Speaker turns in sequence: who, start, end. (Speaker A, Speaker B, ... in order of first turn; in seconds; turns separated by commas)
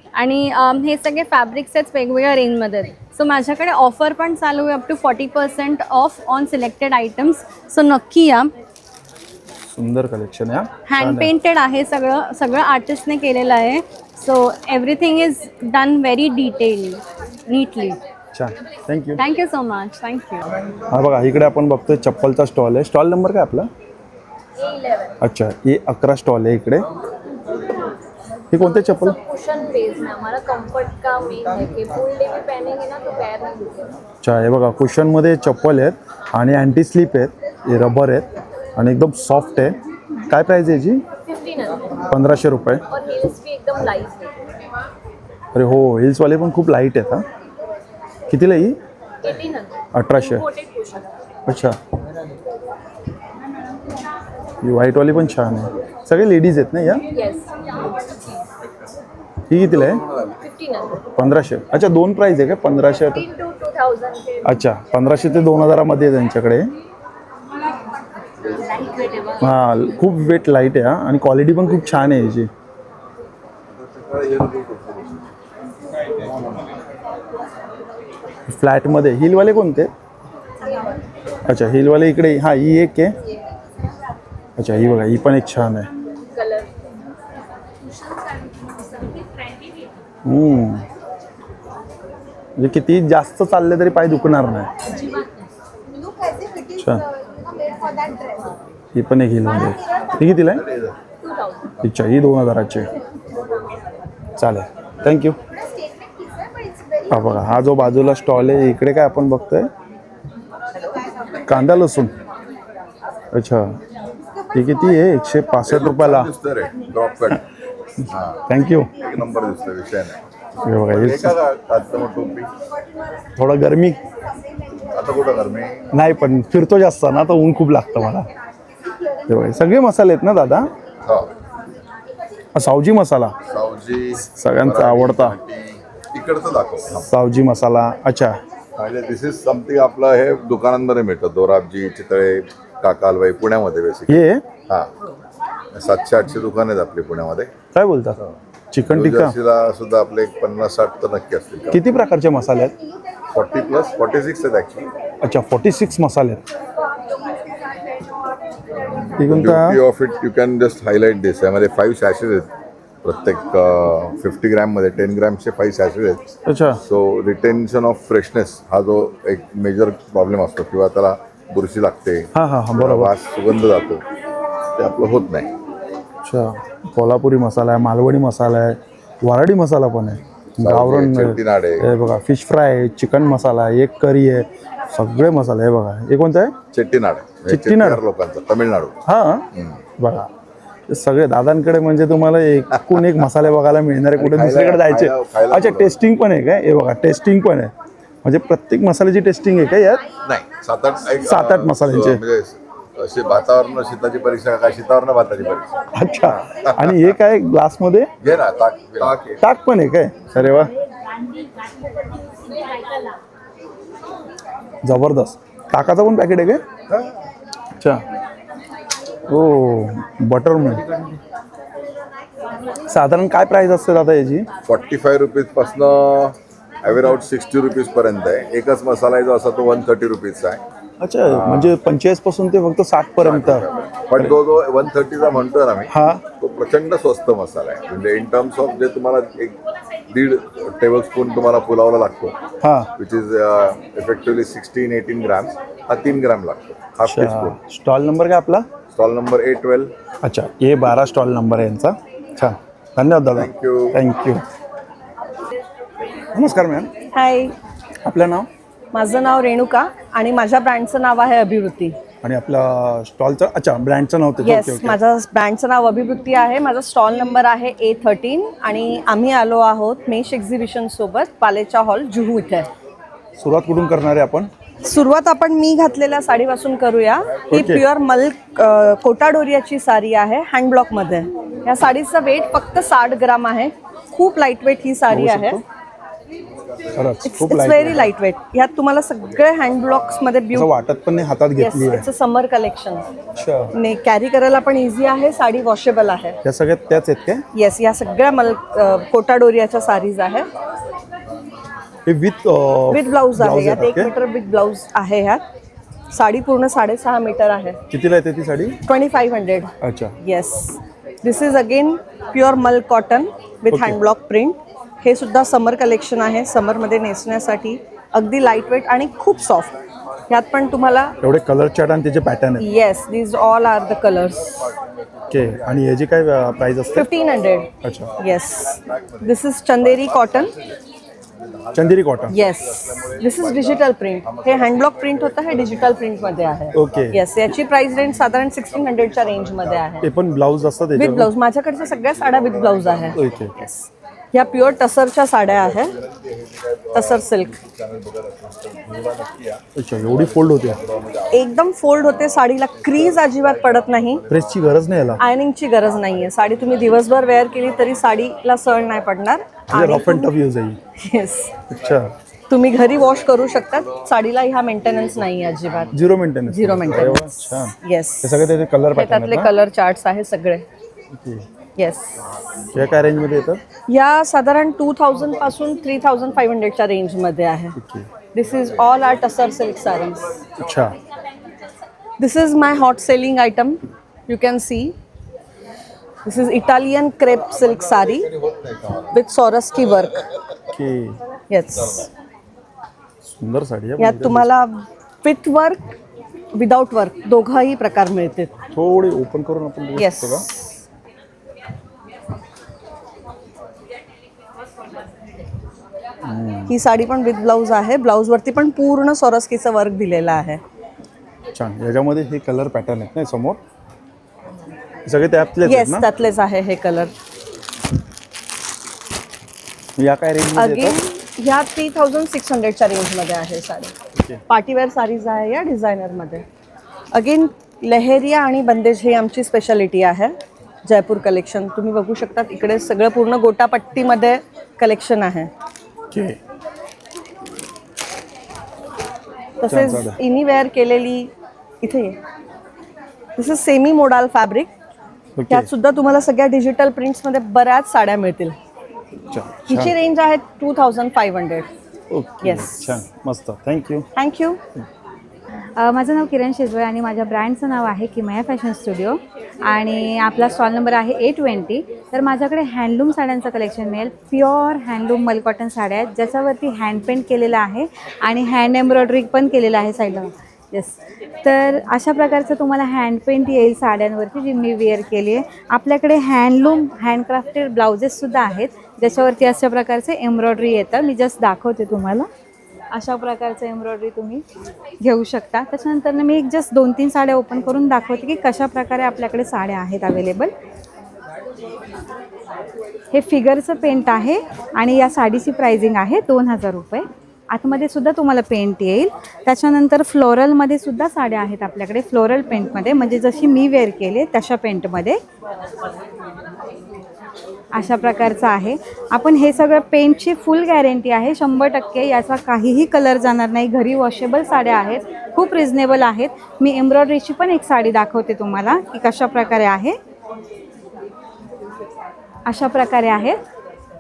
Speaker A: 0.2-8.5, Speaker B: 9.7-11.3, Speaker A: 10.9-18.0, Speaker B: 18.3-19.2, Speaker A: 19.2-20.4, Speaker B: 20.9-23.7, Speaker C: 24.6-25.2, Speaker B: 25.2-26.9, Speaker B: 28.5-29.2, Speaker C: 28.5-34.0, Speaker B: 34.2-39.8, Speaker B: 40.3-41.0, Speaker C: 41.3-42.1, Speaker B: 42.1-42.8, Speaker C: 42.9-44.4, Speaker B: 45.5-47.3, Speaker B: 48.3-48.8, Speaker C: 49.2-51.1, Speaker B: 49.9-50.5, Speaker B: 51.5-51.8, Speaker B: 54.6-57.0, Speaker C: 57.1-58.3, Speaker B: 59.5-60.0, Speaker C: 60.4-61.0, Speaker B: 61.2-63.2, Speaker C: 63.1-64.6, Speaker B: 64.5-66.7, Speaker C: 68.7-69.5, Speaker B: 69.4-72.5, Speaker D: 73.8-75.2, Speaker B: 78.5-79.9, Speaker B: 81.5-83.2, Speaker B: 84.6-85.9, Speaker C: 86.3-86.7, Speaker C: 87.8-89.7, Speaker B: 90.2-90.8, Speaker B: 92.6-94.7, Speaker C: 94.9-95.3, Speaker B: 96.8-97.0, Speaker B: 98.9-100.7, Speaker C: 101.2-101.7, Speaker B: 101.8-102.9, Speaker B: 104.4-105.4, Speaker B: 107.1-109.7, Speaker B: 111.5-112.2, Speaker B: 113.3-113.8, Speaker B: 114.5-116.3, Speaker D: 115.7-117.4, Speaker D: 118.1-118.4, Speaker B: 118.5-118.9, Speaker D: 118.9-120.2, Speaker B: 120.7-121.4, Speaker D: 120.9-122.5, Speaker B: 123.4-124.0, Speaker D: 124.9-125.8, Speaker B: 125.9-128.3, Speaker B: 129.3-130.7, Speaker B: 132.6-133.3, Speaker D: 133.5-137.1, Speaker B: 134.2-135.4, Speaker B: 137.1-138.4, Speaker D: 138.8-144.9, Speaker B: 144.1-144.4, Speaker D: 145.8-147.5, Speaker B: 147.8-148.2, Speaker B: 148.7-149.3, Speaker D: 148.9-151.8, Speaker B: 151.7-152.7, Speaker D: 153.3-154.9, Speaker B: 155.2-156.4, Speaker D: 159.2-162.5, Speaker B: 159.2-159.8, Speaker D: 163.0-166.3, Speaker B: 166.5-166.8, Speaker D: 166.8-174.0, Speaker B: 172.3-173.1, Speaker D: 174.8-175.5, Speaker B: 176.2-186.6, Speaker D: 180.6-181.9, Speaker D: 186.7-189.0, Speaker B: 187.5-188.0, Speaker B: 189.1-189.5, Speaker B: 190.0-190.3, Speaker B: 190.9-197.7, Speaker D: 194.2-195.9, Speaker B: 198.2-200.0, Speaker D: 200.2-207.1, Speaker B: 201.2-202.2, Speaker B: 205.9-208.1, Speaker D: 208.2-209.4, Speaker B: 209.4-210.7, Speaker B: 214.8-216.6, Speaker B: 219.3-220.8, Speaker B: 222.9-224.5, Speaker D: 224.7-230.6, Speaker B: 231.0-233.7, Speaker D: 231.3-231.7, Speaker D: 233.2-239.6, Speaker B: 235.9-236.2, Speaker D: 240.1-242.4, Speaker B: 242.6-242.9, Speaker D: 243.0-247.6, Speaker B: 247.1-248.7, Speaker D: 248.9-249.9, Speaker B: 250.2-254.4, Speaker D: 253.4-254.0, Speaker B: 256.3-256.9, Speaker E: 257.1-257.5, Speaker B: 258.1-258.5, Speaker E: 258.9-262.0, Speaker B: 262.2-265.0, Speaker E: 264.4-272.7, Speaker B: 273.4-274.5, Speaker E: 274.8-285.6, Speaker B: 277.5-277.8, Speaker B: 285.1-285.6, Speaker B: 287.0-288.1, Speaker E: 287.2-290.7, Speaker B: 290.5-292.1, Speaker E: 291.6-293.1, Speaker B: 293.4-293.7, Speaker E: 293.8-296.4, Speaker B: 296.4-297.4, Speaker E: 297.6-300.5, Speaker B: 302.1-304.1, Speaker E: 302.9-305.4, Speaker E: 306.1-307.8, Speaker B: 307.9-308.8, Speaker E: 308.9-319.8, Speaker B: 309.8-310.1, Speaker B: 313.7-314.0, Speaker E: 320.3-321.1, Speaker B: 321.2-322.6, Speaker E: 322.6-324.7, Speaker B: 325.3-327.1, Speaker E: 326.9-330.6, Speaker B: 327.8-328.1, Speaker B: 331.8-332.3, Speaker E: 332.3-340.1, Speaker B: 336.8-337.2, Speaker B: 340.0-341.3, Speaker E: 341.0-343.2, Speaker B: 343.1-343.9, Speaker E: 344.3-346.0, Speaker E: 346.9-347.6, Speaker B: 349.8-350.8, Speaker E: 351.3-354.2, Speaker B: 354.3-355.2, Speaker E: 355.2-360.3, Speaker B: 359.7-360.8, Speaker E: 361.0-361.5, Speaker B: 361.7-362.1, Speaker E: 362.5-370.6, Speaker B: 365.9-369.5, Speaker B: 371.2-371.5, Speaker E: 371.8-372.4, Speaker B: 372.7-373.6, Speaker E: 373.9-377.8, Speaker B: 377.8-378.1, Speaker E: 378.3-380.4, Speaker B: 380.6-380.9, Speaker E: 382.2-384.9, Speaker E: 386.3-388.3, Speaker E: 389.1-390.2, Speaker B: 390.8-391.2, Speaker E: 391.5-392.1, Speaker B: 393.3-394.5, Speaker E: 394.0-395.9, Speaker E: 396.5-398.5, Speaker B: 398.7-400.5, Speaker E: 400.0-400.6, Speaker B: 406.3-406.7, Speaker E: 406.7-410.6, Speaker B: 411.5-413.6, Speaker B: 415.1-416.1, Speaker E: 415.6-417.1, Speaker B: 420.0-421.0, Speaker E: 420.6-423.9, Speaker E: 424.5-426.4, Speaker E: 427.1-435.5, Speaker B: 436.1-436.4, Speaker E: 439.6-442.2, Speaker B: 439.7-440.2, Speaker E: 443.4-444.7, Speaker B: 445.4-445.7, Speaker E: 445.5-448.6, Speaker B: 449.3-449.9, Speaker E: 449.7-451.7, Speaker B: 452.1-454.1, Speaker E: 452.4-453.0, Speaker E: 454.2-454.6, Speaker F: 455.8-482.3, Speaker F: 482.9-484.4, Speaker F: 485.0-490.5, Speaker F: 493.1-505.2, Speaker F: 507.8-520.0, Speaker F: 522.5-523.4